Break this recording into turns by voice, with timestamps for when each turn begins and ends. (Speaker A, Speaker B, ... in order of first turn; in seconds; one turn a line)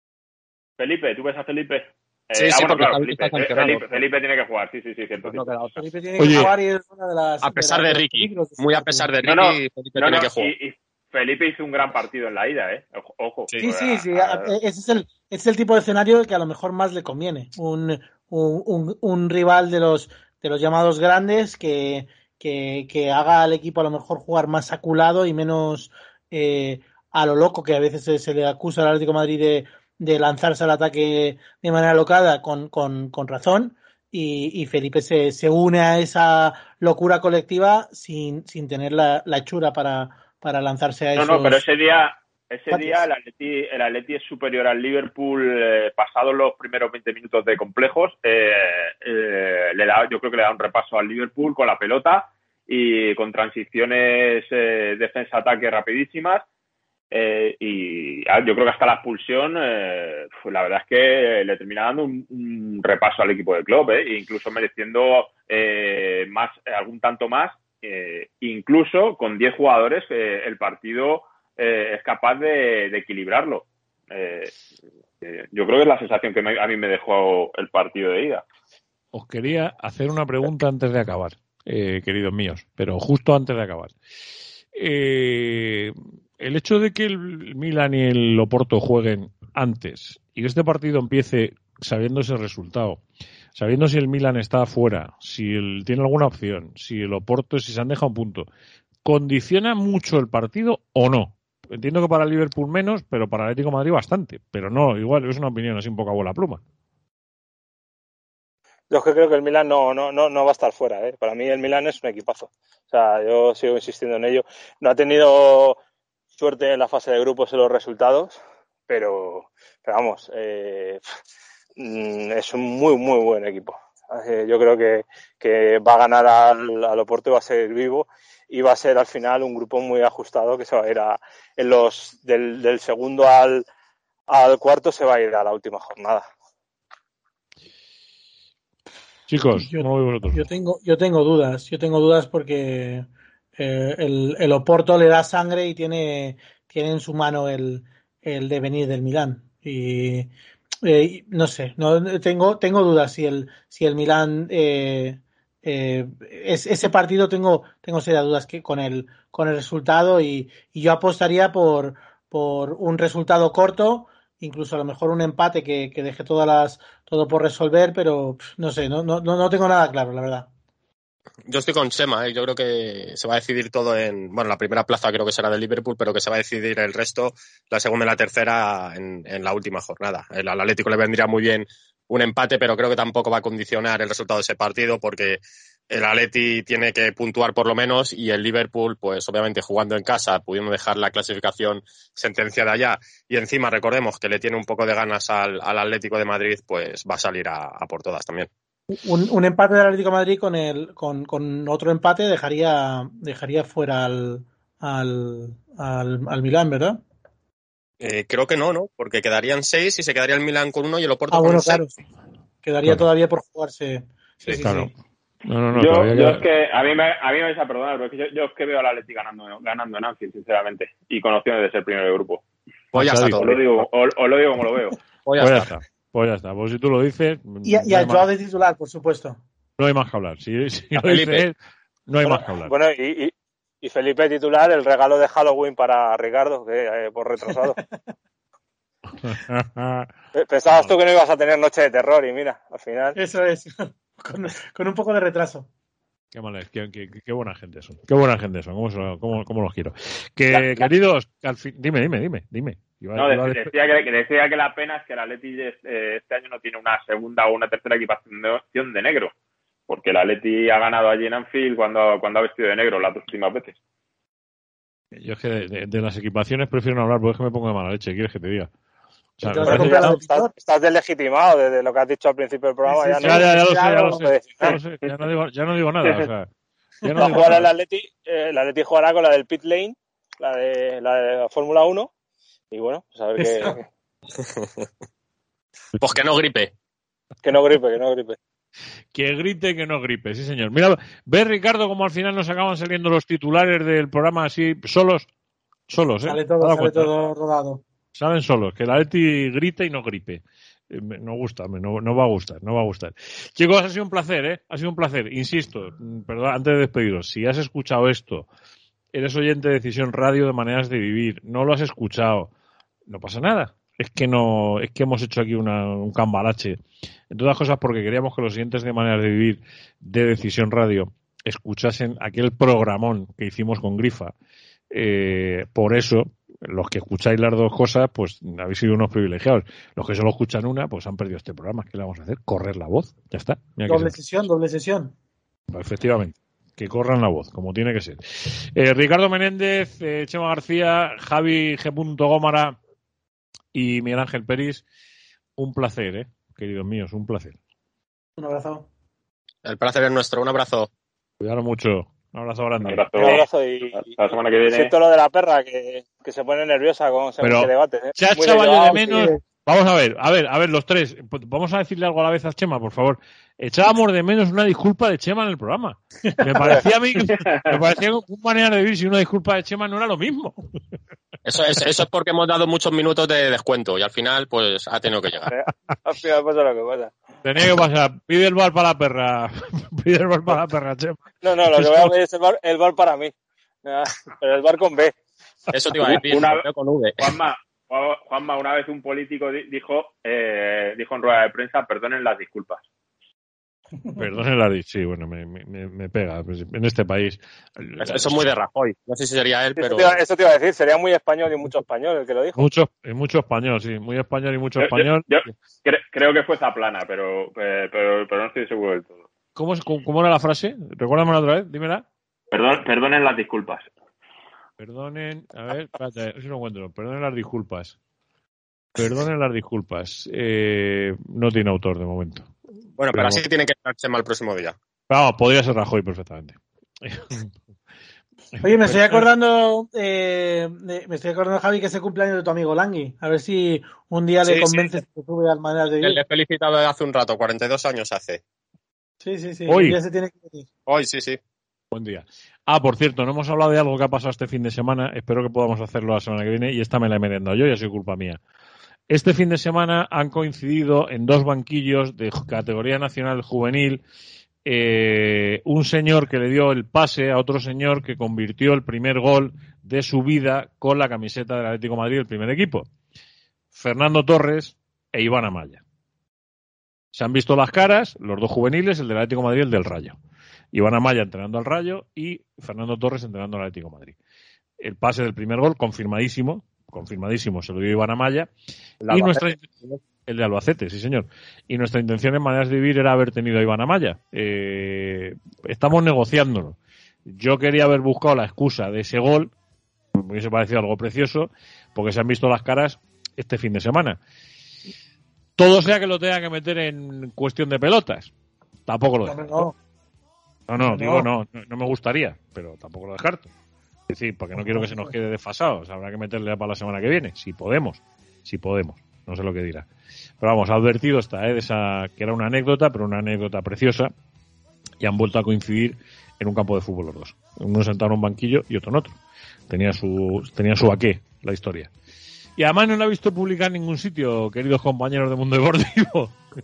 Speaker A: 0.8-5.4
Speaker B: 2.4-4.0
Speaker B: 5.2-6.5
Speaker C: 5.8-9.1
Speaker D: 6.2-6.5
Speaker B: 7.4-10.5
Speaker A: 9.2-14.5
Speaker C: 13.6-41.6
Speaker A: 41.1-56.4
Speaker C: 42.7-43.0
Speaker A: 57.1-74.5
Speaker A: 75.2-78.4
Speaker D: 79.1-83.9
Speaker D: 84.7-93.0
Speaker D: 93.5-98.5
Speaker D: 99.0-106.6
Speaker E: 108.9-115.8
Speaker E: 116.3-121.0
Speaker E: 121.8-133.7
Speaker E: 134.3-136.3
Speaker D: 139.3-140.4
Speaker C: 139.5-150.3
Speaker C: 150.8-170.5
Speaker B: 171.4-198.5
Speaker C: 199.0-207.0
Speaker B: 208.0-211.9
Speaker C: 211.3-211.9
Speaker C: 212.6-214.9
Speaker D: 214.5-214.9
Speaker D: 215.4-216.4
Speaker A: 215.7-222.4
Speaker B: 222.9-223.8
Speaker D: 222.9-223.4
Speaker A: 223.4-225.0
Speaker B: 225.2-225.7
Speaker D: 225.4-228.2
Speaker C: 227.6-229.4
Speaker D: 229.8-231.6
Speaker B: 230.9-231.5
Speaker D: 232.1-232.7
Speaker E: 232.3-237.8
Speaker D: 239.2-240.1
Speaker E: 240.3-243.2
Speaker C: 243.1-245.7
Speaker D: 246.3-253.7
Speaker E: 250.5-250.9
Speaker A: 253.2-259.3
Speaker A: 259.9-263.8
Speaker D: 265.1-268.7
Speaker D: 269.4-270.2
Speaker C: 269.4-270.5
Speaker E: 269.6-274.8
Speaker C: 272.9-274.2
Speaker D: 273.2-276.5
Speaker D: 277.0-277.7
Speaker E: 277.2-282.1
Speaker E: 282.7-283.9
Speaker B: 284.4-284.9
Speaker B: 285.9-286.7
Speaker E: 287.4-288.4
Speaker D: 289.1-295.3
Speaker D: 295.9-297.1
Speaker C: 296.2-297.8
Speaker D: 298.1-308.5
Speaker D: 309.1-312.5
Speaker D: 313.1-324.3
Speaker D: 324.9-334.2
Speaker C: 333.9-335.1
Speaker D: 335.7-342.8
Speaker D: 343.7-344.8
Speaker D: 345.6-347.6
Speaker C: 348.4-348.9
Speaker B: 349.6-350.9
Speaker D: 351.4-353.4
Speaker A: 352.8-354.9
Speaker E: 353.2-354.1
Speaker E: 354.7-359.3
Speaker D: 357.4-370.6
Speaker B: 371.4-375.5
Speaker E: 375.5-377.1
Speaker D: 377.4-382.1
Speaker E: 381.4-383.3
Speaker E: 383.8-385.1
Speaker B: 385.7-387.3
Speaker A: 386.1-386.6
Speaker A: 387.2-392.8
Speaker D: 394.1-398.5
Speaker B: 398.0-400.2
Speaker E: 399.8-402.6
Speaker D: 402.6-405.3
Speaker A: 404.8-409.2
Speaker D: 409.6-412.0
Speaker A: 412.5-413.9
Speaker D: 414.8-417.9
Speaker D: 418.9-422.5
Speaker B: 423.0-424.8
Speaker D: 423.1-423.4
Speaker D: 425.1-427.5
Speaker D: 428.6-429.2
Speaker C: 428.6-436.2
Speaker B: 434.4-435.0
Speaker B: 436.0-438.4
Speaker C: 439.2-440.7
Speaker D: 439.7-440.0
Speaker B: 440.9-441.4
Speaker D: 441.9-448.4
Speaker D: 449.1-454.0
Speaker D: 454.6-462.9
Speaker D: 463.7-465.8
Speaker D: 467.1-470.1
Speaker D: 470.7-474.1
Speaker D: 474.8-478.5
Speaker B: 479.0-480.0
Speaker D: 479.1-486.8
Speaker D: 487.3-489.5
Speaker D: 490.1-494.2
Speaker D: 495.6-498.3
Speaker D: 498.9-499.6
Speaker C: 499.2-499.7
Speaker D: 500.7-503.5
Speaker C: 500.8-501.3
Speaker D: 504.1-509.9
Speaker C: 504.6-505.1
Speaker D: 510.4-514.1
Speaker D: 515.0-519.2
Speaker D: 519.7-521.9
Speaker D: 522.6-526.4